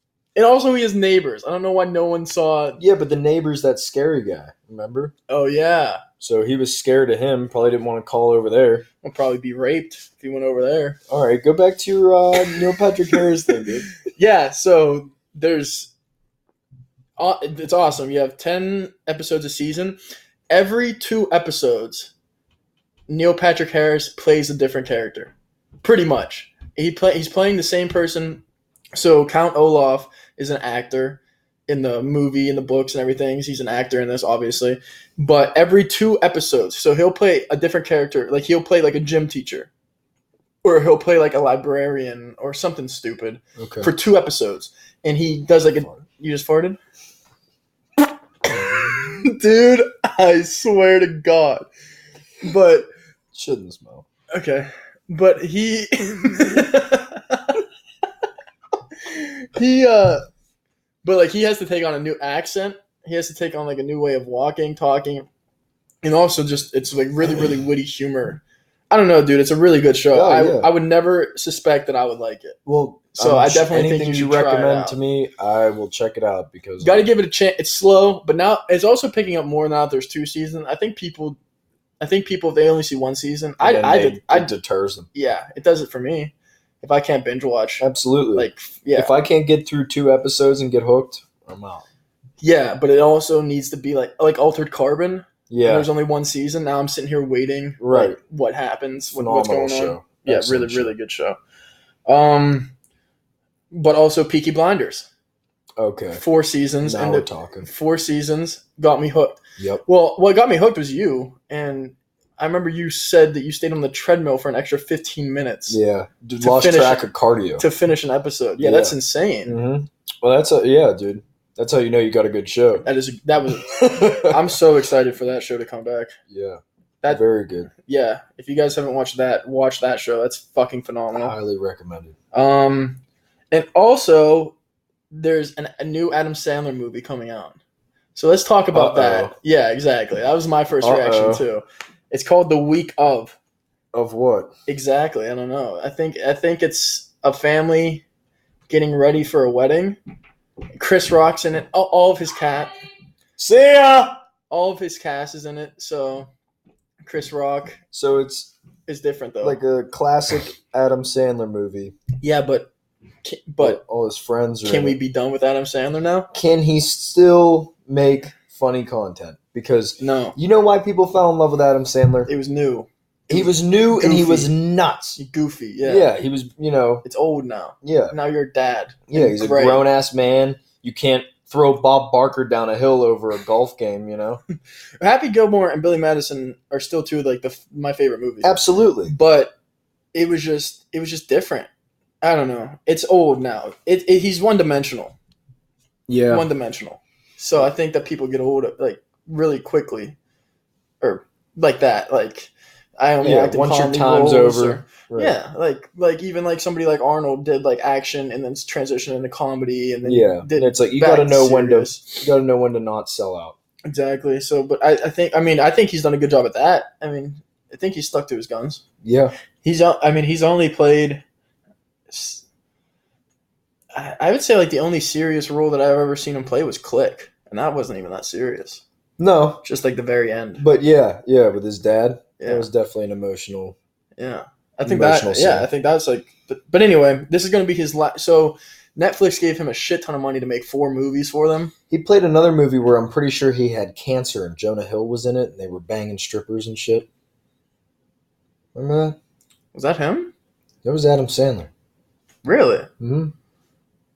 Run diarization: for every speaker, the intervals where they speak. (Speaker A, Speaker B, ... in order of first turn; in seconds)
Speaker A: 0.4-2.8, 5.3-6.0, 9.0-11.0, 13.1-15.9, 17.2-20.0, 20.5-22.1, 23.1-28.4, 28.9-39.7, 40.6-46.8, 48.5-51.7, 52.4-52.9, 54.3-57.6, 59.0-60.2, 61.0-65.2, 66.0-72.6, 73.2-75.0, 76.8-81.4, 82.0-84.5, 85.1-87.8, 88.3-89.1, 92.4-101.4, 102.1-102.7, 103.7-105.1, 106.2-115.8, 116.4-117.0, 117.6-119.6, 122.8-126.2, 127.0-131.3, 132.3-134.6, 135.1-137.6, 138.2-143.4, 144.7-148.0, 148.7-150.0, 150.8-152.7, 154.5-156.3, 157.1-157.8, 158.9-159.6, 162.2-162.7, 163.2-163.8, 164.6-166.3, 170.0-170.4, 172.3-174.5, 175.2-176.1, 177.1-179.9, 185.0-189.5, 190.1-191.7, 192.2-195.2, 196.3-200.2, 201.0-212.2, 213.9-218.8, 219.6-221.2, 222.1-222.4, 223.9-228.8, 229.6-230.7, 232.4-232.7, 234.2-241.7, 249.7-250.3, 252.4-252.9
Speaker B: 2.8-5.1, 6.2-8.9, 11.1-13.9, 43.6-43.9, 48.5-48.8, 53.3-54.0, 70.1-70.7, 72.7-77.1, 83.6-85.1, 87.8-91.8, 95.5-95.9, 97.8-98.2, 99.1-100.9, 105.8-106.2, 106.8-107.7, 109.6-109.8, 115.7-117.7, 118.6-122.9, 123.7-124.6, 126.3-127.7, 131.1-132.2, 138.7-139.3, 140.8-141.4, 143.9-144.5, 153.4-154.2, 157.9-158.5, 159.4-161.9, 163.6-165.0, 166.3-172.3, 173.3-175.2, 175.8-177.1, 177.8-178.2, 179.1-184.4, 188.4-189.2, 196.1-196.5, 203.2-205.4, 210.1-213.6, 219.0-219.3, 229.2-229.6, 230.6-233.8, 234.8-235.7, 241.9-247.1, 248.8-249.2, 250.8-251.7, 253.0-253.3